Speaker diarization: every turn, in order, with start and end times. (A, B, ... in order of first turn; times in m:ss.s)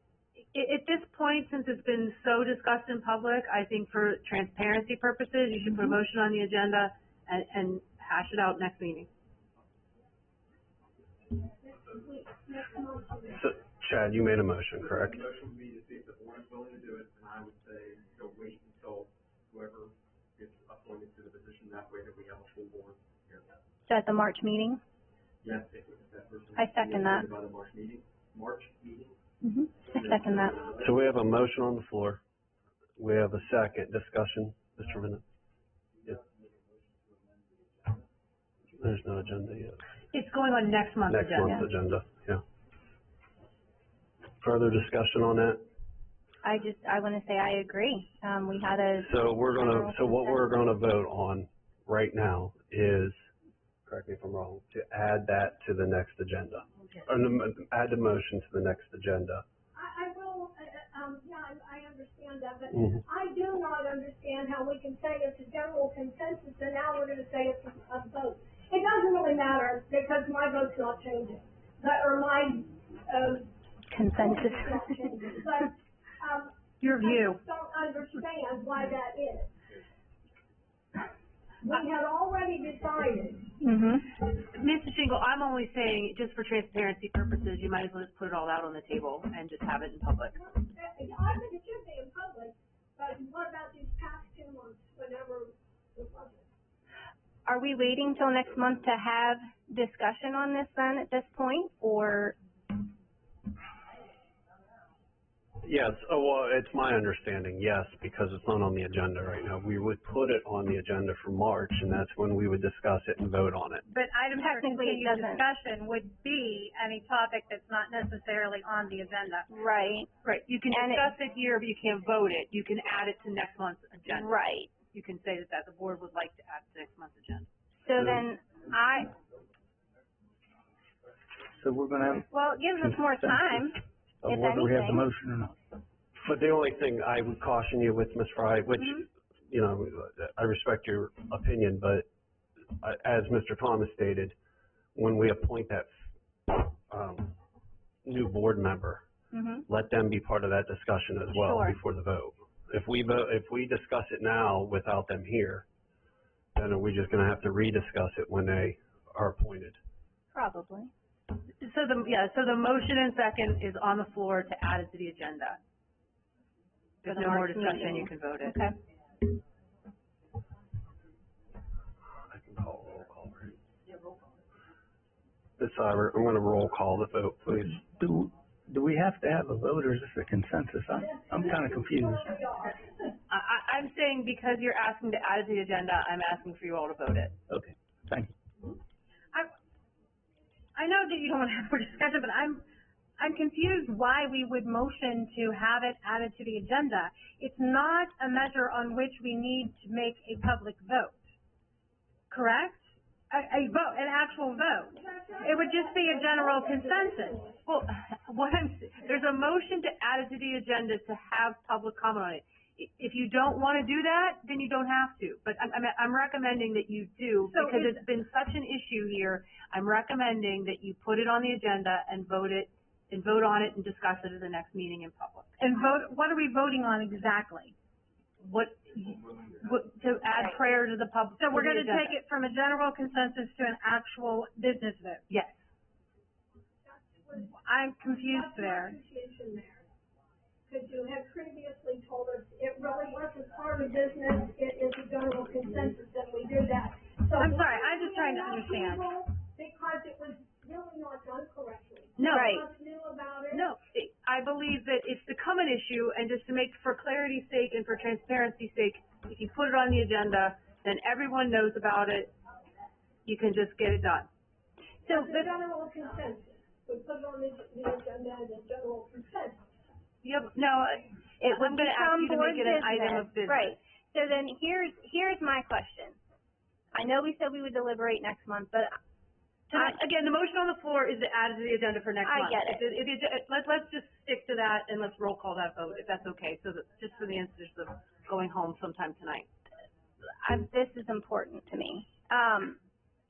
0:00.5-0:09.1 A
0:11.6-0:13.6 B
0:13.3-0:15.2 C
0:14.8-0:23.6 D
0:23.8-0:24.8 E
0:25.4-0:29.2 D
0:26.6-0:27.2 E
0:29.4-0:30.6 E
0:29.9-0:30.8 D
0:30.8-0:32.2 C
0:33.0-0:35.2 C
0:38.8-0:39.8 C
0:40.1-0:41.6 A
0:41.1-0:42.4 C
0:44.4-0:45.6 C
0:46.4-0:50.4 E
0:49.0-0:53.3 C
0:53.8-0:59.4 C
0:59.7-1:13.5 B
1:02.7-1:03.0 C
1:13.9-1:14.8 E
1:14.1-1:19.6 B
1:16.8-1:17.4 F
1:21.6-1:23.6 B
1:23.6-1:24.1 E
1:24.3-1:30.3 A
1:30.3-1:36.5 B
1:37.4-1:42.4 E
1:45.6-1:53.8 C
1:53.9-1:59.5 F
1:54.4-1:55.4 E
1:59.5-2:00.1 E
2:00.2-2:07.5 A
2:00.7-2:01.1 E
2:04.1-2:04.7 E
2:07.8-2:09.1 E
2:11.5-2:13.6 G
2:12.3-2:15.0 E
2:14.2-2:15.6 G
2:16.2-2:22.1 C
2:18.8-2:19.0 E
2:22.8-2:24.3 C
2:24.9-2:25.9 C
2:26.5-2:27.4 C
2:28.0-2:29.0 C
2:29.3-2:29.6 E
2:29.7-2:35.6 C
2:36.5-2:39.8 C
2:40.3-2:40.9 E
2:41.6-2:45.6 A
2:47.0-2:48.6 A
2:47.0-2:48.7 E
2:52.2-2:53.6 C
2:55.6-2:57.8 C
2:57.7-3:02.4 G
3:01.0-3:03.2 B
3:03.3-3:07.4 A
3:07.5-3:08.3 G
3:10.7-3:12.6 F
3:13.2-3:21.2 F
3:22.3-3:27.4 F
3:24.9-3:27.6 B
3:27.6-3:45.5 A
3:37.5-3:38.0 F
3:45.6-3:47.7 F
3:48.4-3:52.2 A
3:51.4-3:55.2 F
3:55.3-3:55.6 A
3:56.8-3:59.8 B
3:57.5-3:59.0 F
4:00.7-4:13.7 B
4:07.4-4:09.1 F
4:12.2-4:12.5 A
4:12.3-4:12.6 E
4:13.5-4:22.3 A
4:23.2-4:24.3 A
4:25.0-4:29.7 B
4:25.1-4:25.4 E
4:30.2-4:33.8 A
4:31.4-4:36.2 E
4:36.9-4:39.0 E
4:39.7-4:49.5 A
4:42.2-4:42.8 E
4:50.4-4:52.8 E